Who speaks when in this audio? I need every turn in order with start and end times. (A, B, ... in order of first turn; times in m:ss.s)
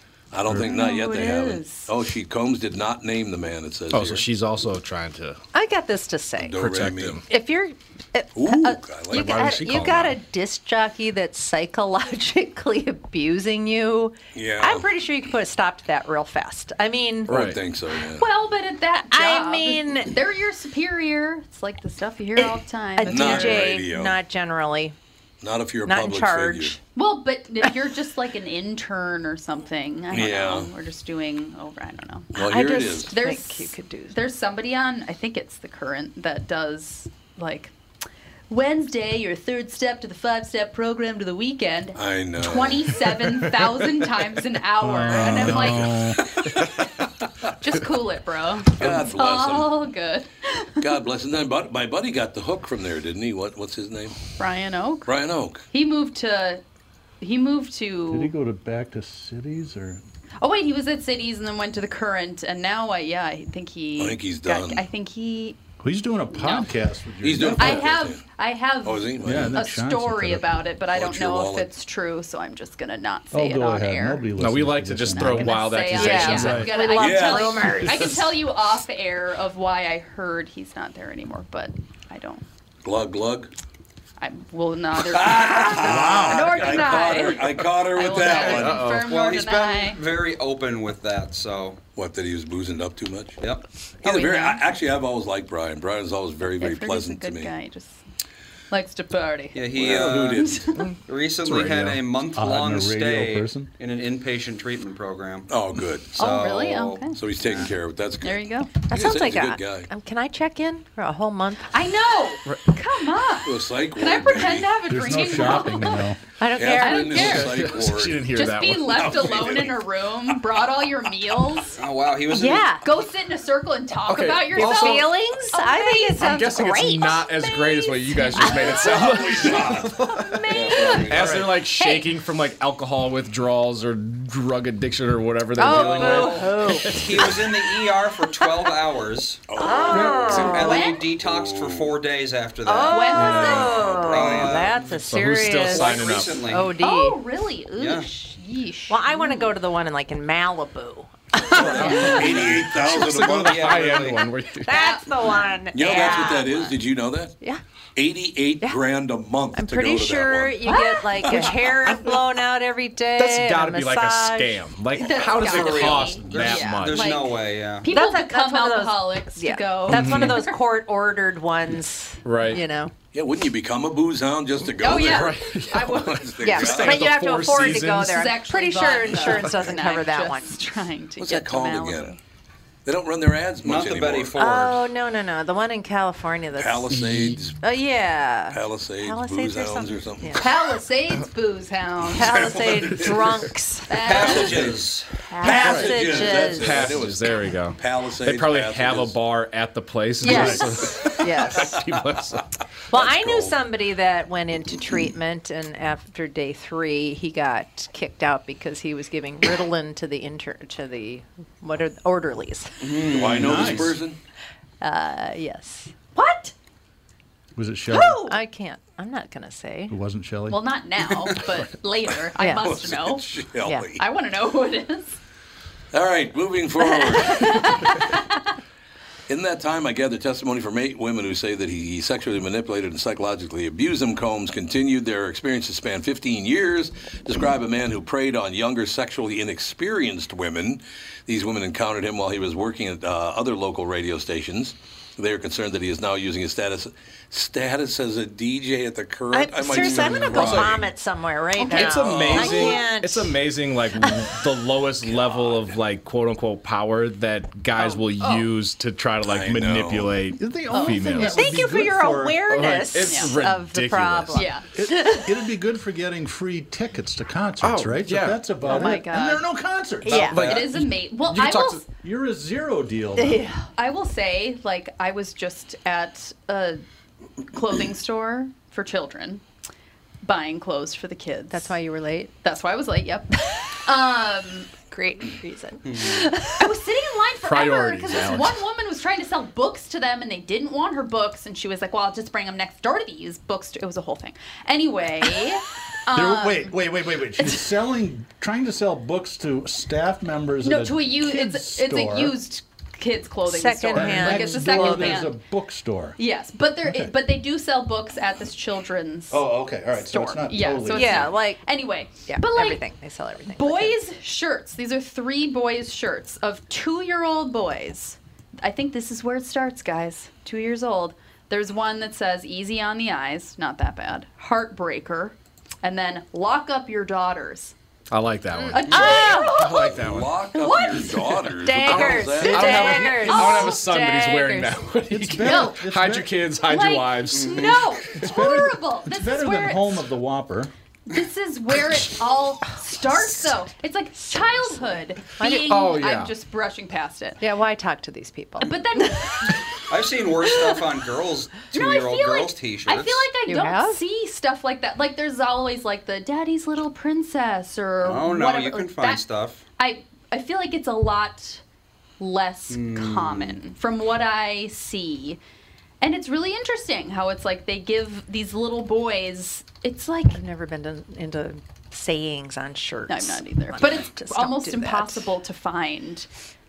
0:00.3-0:04.2 A
0:00.7-0:01.9 B
0:03.9-0:05.4 C
0:05.5-0:06.7 D
0:06.4-0:07.2 A
0:06.6-0:07.2 C
0:07.3-0:17.4 D
0:08.4-0:09.9 A
0:09.1-0:10.2 C
0:14.4-0:14.9 A
0:17.3-0:17.6 C
0:17.3-0:18.3 A
0:18.2-0:23.7 B
0:19.1-0:20.1 D
0:22.4-0:25.0 D
0:23.1-0:24.2 A
0:25.4-0:26.8 A
0:25.9-0:26.8 D
0:27.0-0:32.3 B
0:30.1-0:30.7 A
0:32.4-0:33.1 A
0:32.4-0:34.2 D
0:33.1-0:37.7 B
0:38.5-0:45.9 B
0:42.0-0:43.1 A
0:44.8-0:46.2 E
0:45.1-0:46.5 A
0:47.6-0:50.8 B
0:48.8-0:49.8 A
0:50.8-0:54.2 A
0:54.4-0:55.1 B
0:55.1-0:55.6 A
0:55.7-0:56.6 B
0:57.2-0:58.3 B
0:58.1-1:00.0 E
1:00.4-1:05.6 B
1:04.0-1:04.8 A
1:05.8-1:07.9 E
1:06.3-1:06.7 B
1:07.2-1:08.2 A
1:07.6-1:14.3 B
1:08.8-1:09.6 A
1:09.2-1:10.5 E
1:10.9-1:11.7 A
1:13.3-1:15.6 E
1:14.4-1:16.7 C
1:15.1-1:22.4 B
1:15.8-1:18.3 D
1:16.1-1:16.7 E
1:16.8-1:17.8 A
1:22.8-1:23.5 A
1:24.2-1:30.0 B
1:25.0-1:28.9 A
1:25.8-1:26.8 E
1:28.6-1:29.1 C
1:28.8-1:31.8 F
1:32.0-1:33.4 A
1:34.0-1:34.6 B
1:34.0-1:37.5 A
1:36.6-1:38.0 B
1:38.7-1:40.9 B
1:39.5-1:40.5 F
1:39.8-1:40.6 A
1:41.0-1:45.5 F
1:41.5-1:43.7 E
1:45.5-1:46.1 A
1:46.1-1:47.7 F
1:46.2-1:47.2 B
1:47.2-1:49.9 A
1:48.2-1:48.7 B
1:48.9-1:51.7 D
1:51.7-1:56.1 B
1:53.4-1:54.7 A
1:54.9-1:56.2 E
1:56.4-1:57.4 D
1:56.6-1:58.3 A
1:56.7-1:57.5 B
1:57.2-1:59.2 C
1:58.3-2:01.8 B
1:58.9-1:59.8 A
2:01.8-2:02.7 F
2:02.3-2:02.8 D
2:02.8-2:06.4 B
2:04.1-2:05.0 C
2:04.6-2:07.4 D
2:06.2-2:10.4 C
2:07.2-2:11.2 B
2:08.3-2:08.8 D
2:08.8-2:10.0 A
2:10.5-2:11.5 F
2:10.5-2:11.0 D
2:10.8-2:11.1 A
2:11.1-2:17.7 C
2:11.1-2:11.5 E
2:11.8-2:12.1 B
2:15.6-2:17.1 D
2:15.6-2:19.4 F
2:19.5-2:20.6 A
2:19.6-2:21.0 D
2:20.2-2:25.0 F
2:20.4-2:21.1 B
2:21.2-2:21.9 A
2:22.6-2:27.2 D
2:22.9-2:23.8 B
2:23.2-2:24.7 A
2:25.1-2:26.5 C
2:25.6-2:26.8 F
2:26.8-2:29.6 B
2:27.8-2:28.1 F
2:28.9-2:32.5 D
2:31.6-2:32.2 C
2:31.9-2:34.1 A
2:32.8-2:34.7 C
2:33.3-2:34.3 F
2:34.6-2:36.7 D
2:34.7-2:36.4 B
2:35.7-2:37.4 A
2:38.0-2:40.6 A
2:39.5-2:44.7 D
2:40.7-2:41.5 B
2:43.2-2:47.1 C
2:45.0-2:50.6 B
2:45.5-2:47.9 F
2:47.9-2:52.9 D
2:49.9-2:50.4 C
2:52.2-2:52.6 C
2:53.1-2:57.1 A
2:54.8-2:56.3 B
2:54.8-2:55.9 C
2:56.4-3:00.6 D
2:56.6-2:58.1 C
2:57.9-3:02.2 B
3:01.2-3:02.2 A
3:02.8-3:04.4 A
3:03.6-3:04.8 F
3:04.4-3:07.1 D
3:06.6-3:07.6 A
3:07.0-3:07.4 C
3:07.6-3:10.5 D
3:08.5-3:10.4 A
3:10.4-3:12.8 B
3:12.1-3:14.1 D
3:12.2-3:13.4 A
3:13.9-3:14.6 B
3:14.0-3:15.1 F
3:14.2-3:14.8 A
3:15.2-3:17.0 D
3:15.4-3:19.2 A
3:16.6-3:22.4 C
3:20.2-3:21.8 D
3:20.3-3:20.7 E
3:22.9-3:33.1 D
3:22.9-3:23.6 A
3:32.8-3:33.9 F
3:33.1-3:34.2 A
3:33.4-3:34.0 E
3:34.8-3:36.5 B
3:37.6-3:38.2 E
3:37.9-3:38.4 B
3:38.2-3:40.0 D
3:39.9-3:40.6 E
3:40.5-3:43.3 B
3:42.4-3:42.7 D
3:42.6-3:44.0 A
3:43.6-3:43.9 D
3:44.0-3:45.2 B
3:45.9-3:48.0 A
3:46.9-3:48.2 B
3:49.3-4:10.9 A
4:09.3-4:13.4 D
4:09.8-4:10.1 F
4:10.3-4:10.7 C
4:11.6-4:21.4 C
4:11.7-4:12.8 A
4:17.8-4:18.5 B
4:19.2-4:20.2 A
4:20.4-4:22.6 E
4:20.8-4:25.3 D
4:22.5-4:24.5 C
4:23.1-4:23.3 B
4:24.3-4:24.7 B
4:24.8-4:30.5 E
4:27.6-4:28.5 C
4:28.6-4:29.4 B
4:28.7-4:29.0 D
4:30.1-4:31.8 B
4:30.1-4:30.4 D
4:30.2-4:30.7 F
4:30.4-4:30.7 C
4:31.3-4:31.8 C
4:31.3-4:33.4 E
4:33.2-4:33.6 D
4:33.7-4:36.8 B
4:37.5-4:39.4 B
4:40.2-4:41.8 B
4:41.5-4:42.3 D
4:42.4-4:44.7 B
4:44.9-4:46.6 D
4:46.0-4:56.8 B
4:47.4-4:48.6 C
4:56.1-5:02.4 E
4:57.4-4:57.7 B
5:00.6-5:05.4 B
5:03.4-5:05.3 D
5:03.9-5:06.2 E
5:06.2-5:09.4 B
5:06.8-5:07.1 E
5:09.3-5:11.4 E
5:10.0-5:12.8 B
5:10.9-5:11.6 D
5:12.3-5:14.0 D
5:13.5-5:27.8 B
5:28.1-5:30.4 C
5:28.5-5:29.7 D
5:28.7-5:29.9 B
5:29.9-5:33.2 A
5:30.6-5:31.4 B
5:31.6-5:34.8 D
5:31.9-5:38.2 C
5:32.7-5:33.8 B
5:35.1-5:36.4 E
5:35.4-5:35.7 B
5:36.7-5:40.1 B
5:37.3-5:37.7 F
5:38.2-5:40.7 E
5:41.1-5:47.4 B
5:45.4-5:46.0 D
5:45.7-5:46.3 C
5:47.4-5:49.6 D
5:48.6-5:49.6 B
5:49.9-5:53.2 F
5:51.7-5:59.2 B
5:53.5-5:54.0 D
5:58.0-5:59.6 F
5:59.8-6:01.6 B
6:02.2-6:05.4 B
6:02.7-6:03.6 F
6:06.0-6:10.4 B
6:10.3-6:15.3 D
6:13.1-6:16.3 B